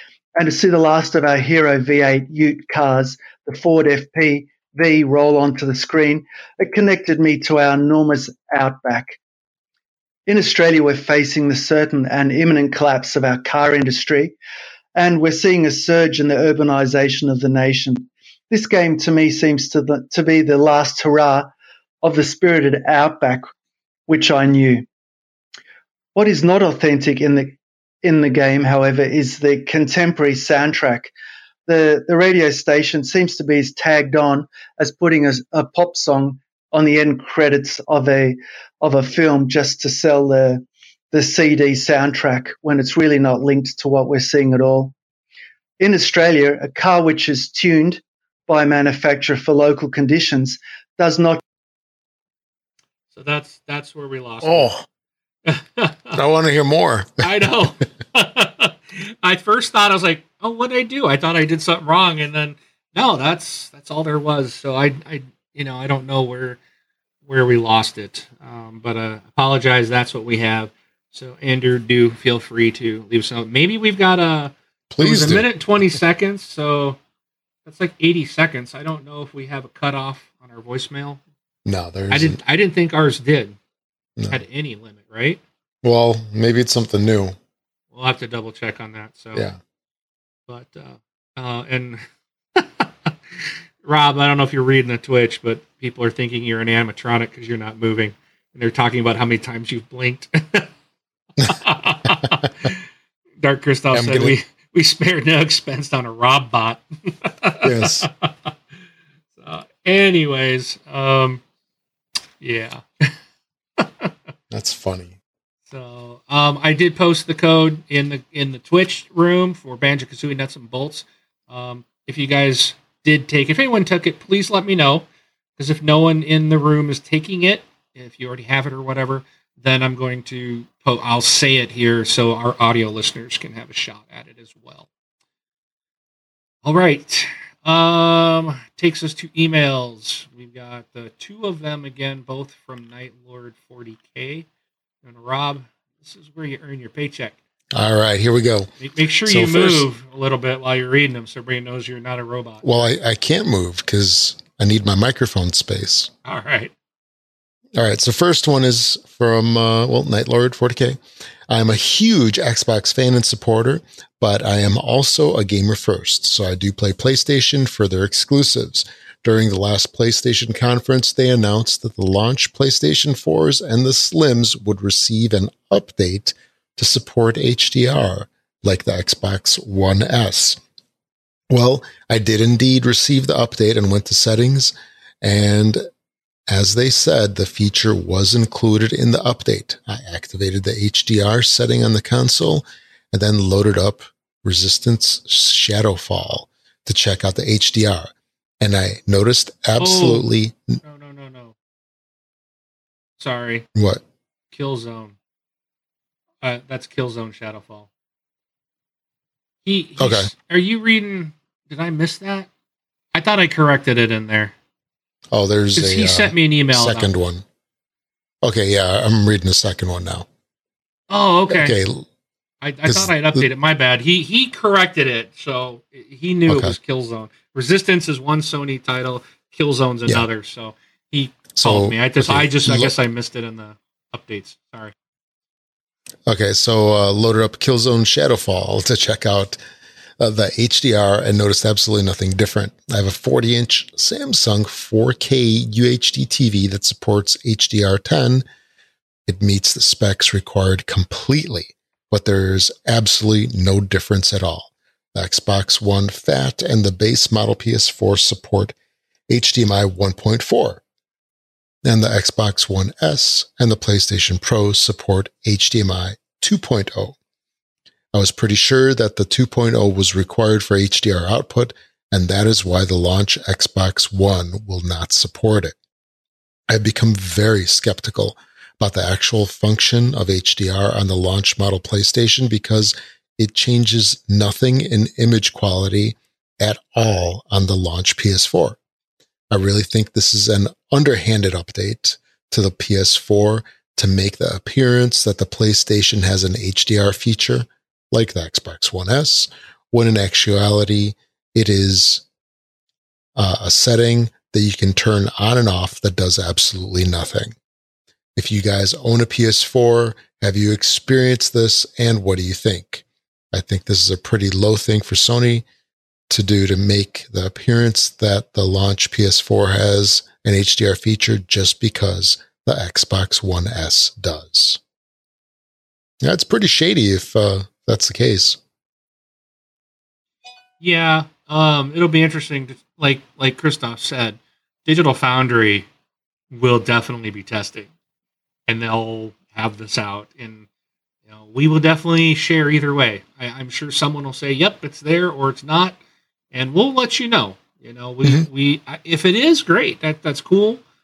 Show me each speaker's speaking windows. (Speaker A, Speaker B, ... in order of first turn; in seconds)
Speaker A: 0.3-9.2, 10.3-14.3, 14.9-21.5, 22.0-23.5, 24.1-24.9, 26.1-31.1, 31.7-44.9, 45.8-51.4
Speaker B: 53.1-54.7, 55.5-56.2, 57.2-66.6, 67.2-77.0, 77.6-81.2, 82.1-83.6, 84.3-85.4, 87.9-89.4, 90.5-92.0, 92.5-93.1, 93.8-100.7, 101.4-102.8, 103.4-108.5, 109.3-111.4, 112.4-113.1, 113.8-114.1, 115.7-125.0, 125.6-134.9, 136.6-144.4, 145.0-147.3, 148.8-152.6, 156.2-156.7, 199.8-200.2, 200.8-201.6, 203.2-203.7, 204.5-205.2, 206.4-207.9, 209.6-212.5, 213.1-214.5, 215.7-217.1, 221.1-221.8, 222.6-234.9, 330.8-335.9, 336.5-337.9, 338.7-340.7, 341.3-346.0, 346.5-350.8
Speaker C: 54.4-54.8, 56.1-57.2, 74.9-75.5, 81.6-82.4, 85.8-87.4, 89.3-89.6, 103.9-104.3, 107.6-108.1, 114.5-115.1, 147.7-148.7, 149.2-149.8, 152.6-156.1, 157.8-180.6, 181.5-185.8, 186.5-200.8, 203.7-204.0, 210.0-210.3, 215.3-217.4, 218.4-220.3, 221.5-222.1, 222.9-223.4, 226.5-226.7, 231.5-232.9, 236.2-239.6, 240.2-248.4, 249.3-258.8, 259.3-260.8, 261.8-267.2, 268.1-275.7, 276.7-288.8, 289.5-302.2, 303.4-307.5, 308.4-315.6, 316.3-324.8, 326.2-328.6